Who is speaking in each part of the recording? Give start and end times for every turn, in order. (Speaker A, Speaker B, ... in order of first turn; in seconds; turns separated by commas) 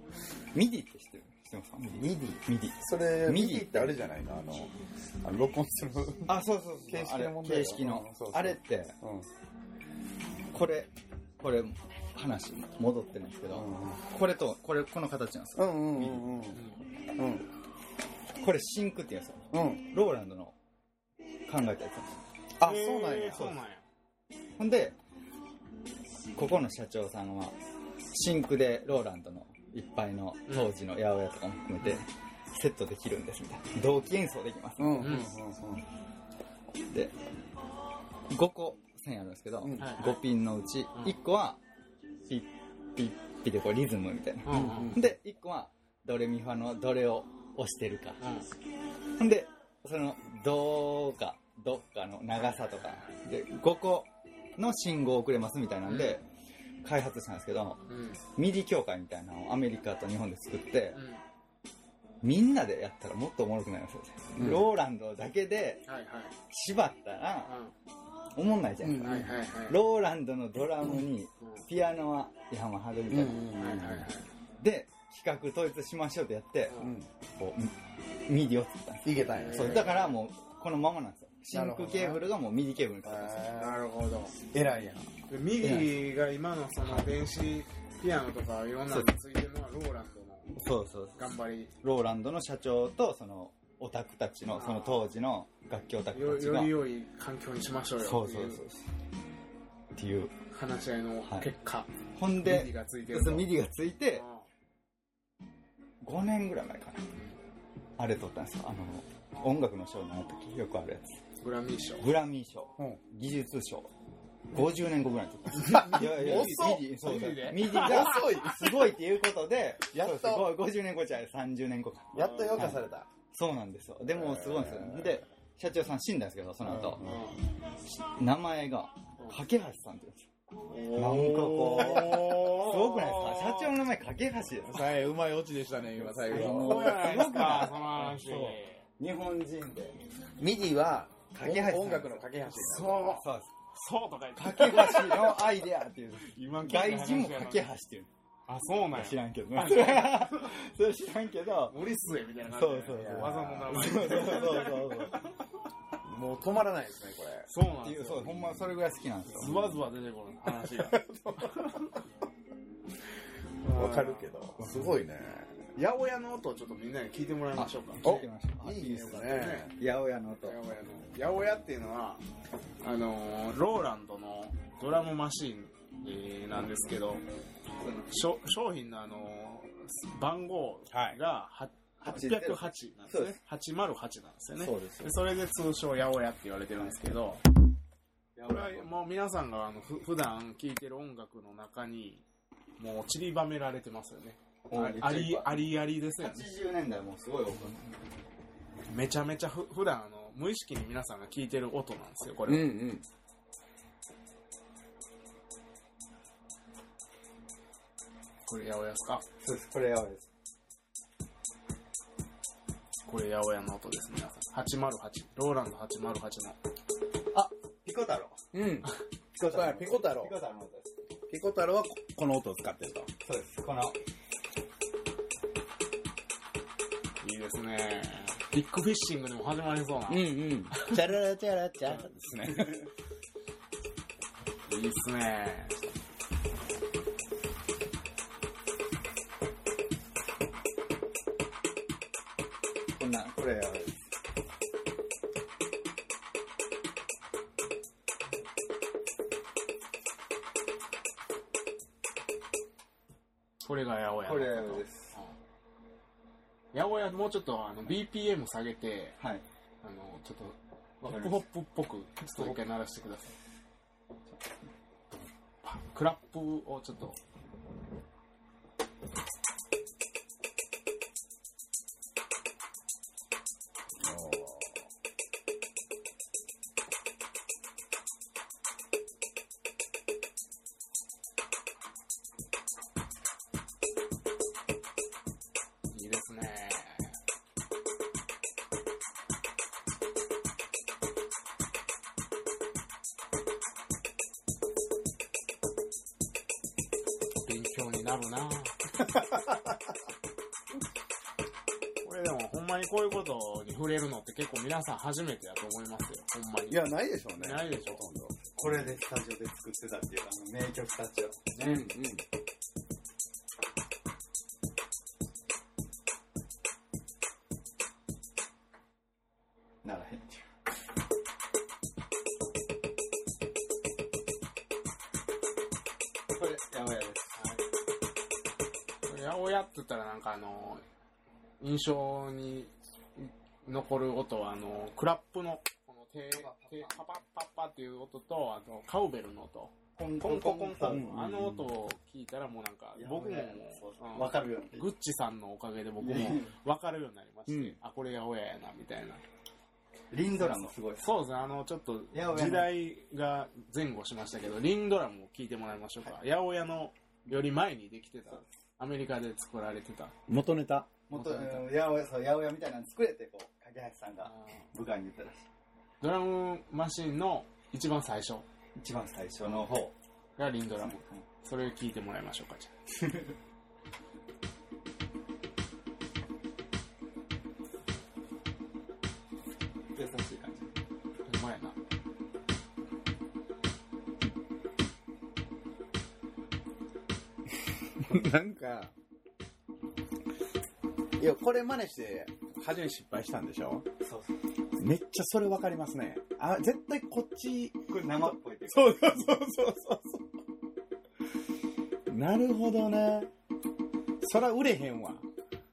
Speaker A: 0.5-4.0, Speaker B: 2.8-4.7, Speaker B: 5.2-9.3, Speaker A: 6.3-9.0, Speaker A: 10.5-16.3, Speaker B: 13.5-14.1, Speaker B: 15.6-16.6, Speaker C: 16.6-16.8, Speaker B: 17.2-17.5, Speaker A: 18.4-20.6, Speaker B: 19.5-19.9, Speaker A: 21.5-22.2, Speaker B: 22.6-23.5, Speaker C: 22.6-23.9, Speaker A: 24.6-25.0, Speaker A: 26.4-27.6, Speaker A: 28.1-35.1, Speaker C: 30.5-30.7, Speaker B: 34.8-35.9, Speaker C: 35.0-35.3, Speaker A: 38.3-41.6, Speaker B: 39.6-39.9, Speaker C: 39.8-40.2, Speaker A: 42.3-48.2, Speaker C: 44.4-45.0, Speaker B: 44.5-45.1, Speaker C: 48.2-48.5, Speaker A: 49.2-56.3, Speaker C: 52.4-53.2, Speaker C: 55.9-56.2, Speaker A: 56.8-57.8, Speaker C: 57.9-58.2, Speaker A: 58.4-61.0, Speaker C: 60.9-61.2, Speaker A: 62.2-65.8, Speaker B: 64.4-64.7, Speaker C: 65.9-66.4, Speaker A: 66.5-67.5, Speaker C: 67.5-67.7, Speaker A: 68.3-73.5, Speaker B: 68.8-69.3, Speaker C: 69.0-69.8, Speaker C: 71.4-71.7, Speaker B: 73.1-74.1, Speaker C: 73.5-74.3, Speaker A: 74.6-83.5, Speaker C: 76.7-76.9, Speaker B: 76.8-77.1, Speaker B: 79.0-79.9, Speaker C: 79.2-80.2, Speaker B: 81.5-82.3, Speaker B: 83.0-83.8, Speaker C: 83.6-84.4, Speaker B: 84.5-85.1, Speaker C: 85.3-90.6, Speaker A: 85.6-85.9, Speaker A: 90.6-91.2, Speaker C: 91.2-91.7, Speaker A: 91.8-96.8, Speaker C: 94.5-95.0, Speaker C: 96.1-98.6, Speaker A: 98.0-98.9, Speaker A: 99.9-100.3, Speaker C: 100.5-103.5, Speaker A: 102.2-104.2, Speaker C: 104.1-104.5, Speaker A: 106.0-107.0, Speaker A: 108.0-111.2, Speaker C: 111.4-112.1, Speaker A: 112.0-113.9, Speaker A: 114.5-127.0, Speaker B: 115.5-117.0, Speaker C: 115.6-118.4, Speaker B: 117.5-118.9, Speaker B: 119.9-120.5, Speaker B: 122.1-123.1, Speaker C: 122.2-122.7, Speaker B: 124.2-125.2, Speaker B: 126.6-127.3, Speaker C: 127.0-127.4, Speaker A: 128.2-130.3, Speaker C: 130.7-133.7, Speaker A: 130.9-134.9, Speaker B: 134.7-137.5, Speaker A: 136.0-140.0, Speaker C: 136.3-138.9, Speaker B: 140.4-143.2, Speaker A: 141.3-142.3, Speaker C: 142.5-145.5, Speaker A: 143.1-143.5, Speaker A: 144.4-148.1, Speaker C: 146.3-147.7, Speaker C: 148.5-150.5, Speaker A: 148.9-151.8, Speaker C: 151.7-155.4, Speaker A: 152.5-155.2, Speaker B: 152.9-154.3, Speaker B: 156.0-157.5, Speaker C: 157.5-158.6, Speaker A: 157.8-159.7, Speaker C: 159.3-162.0, Speaker B: 160.7-161.7, Speaker C: 163.6-164.3, Speaker B: 163.7-165.7, Speaker C: 165.8-169.7, Speaker A: 167.6-169.0, Speaker B: 168.0-169.8, Speaker A: 169.8-170.6, Speaker C: 170.4-172.2, Speaker C: 172.8-177.2, Speaker A: 177.8-178.1, Speaker C: 177.9-187.4, Speaker B: 180.9-181.2, Speaker A: 182.0-183.4, Speaker A: 184.6-185.2, Speaker A: 188.3-189.0, Speaker C: 188.5-192.2, Speaker C: 192.8-196.5, Speaker A: 194.7-197.9, Speaker C: 198.9-202.8, Speaker B: 202.5-203.0, Speaker C: 208.5-209.2, Speaker A: 209.4-210.3, Speaker C: 213.1-216.6, Speaker A: 217.3-218.4, Speaker B: 218.5-220.3, Speaker A: 219.3-220.9, Speaker B: 221.3-223.1, Speaker A: 223.2-224.0, Speaker C: 227.2-231.0, Speaker B: 230.1-232.9, Speaker C: 234.7-235.9, Speaker A: 242.9-244.0, Speaker C: 253.6-255.3, Speaker A: 254.2-255.2, Speaker C: 256.7-259.2, Speaker A: 259.2-259.4, Speaker C: 259.8-263.4, Speaker A: 261.1-261.5, Speaker A: 262.2-262.6, Speaker C: 265.6-267.2, Speaker B: 274.0-274.8, Speaker C: 285.9-287.2, Speaker C: 297.4-298.8, Speaker C: 302.0-308.0, Speaker B: 306.7-308.5, Speaker A: 308.6-311.5, Speaker B: 311.6-312.2, Speaker A: 319.8-320.5, Speaker A: 326.3-327.4, Speaker C: 327.4-327.6, Speaker C: 329.1-330.8, Speaker C: 331.6-349.2, Speaker A: 336.4-336.9, Speaker A: 340.0-341.2, Speaker B: 340.9-341.7, Speaker A: 343.0-344.9, Speaker A: 346.0-346.6, Speaker B: 347.5-347.8, Speaker A: 350.1-351.1, Speaker C: 350.4-360.1, Speaker A: 352.1-352.7, Speaker B: 360.3-360.9, Speaker A: 361.1-365.5, Speaker C: 361.1-361.7, Speaker C: 364.2-364.7, Speaker C: 366.0-368.5, Speaker A: 368.8-369.9, Speaker C: 370.4-372.7, Speaker A: 370.8-371.2, Speaker A: 373.0-373.3, Speaker A: 379.9-380.7, Speaker C: 381.2-381.8, Speaker B: 388.0-388.9, Speaker B: 391.2-393.9, Speaker A: 394.0-394.4, Speaker B: 394.8-400.2, Speaker A: 397.9-399.5, Speaker B: 402.1-403.3, Speaker B: 404.2-405.2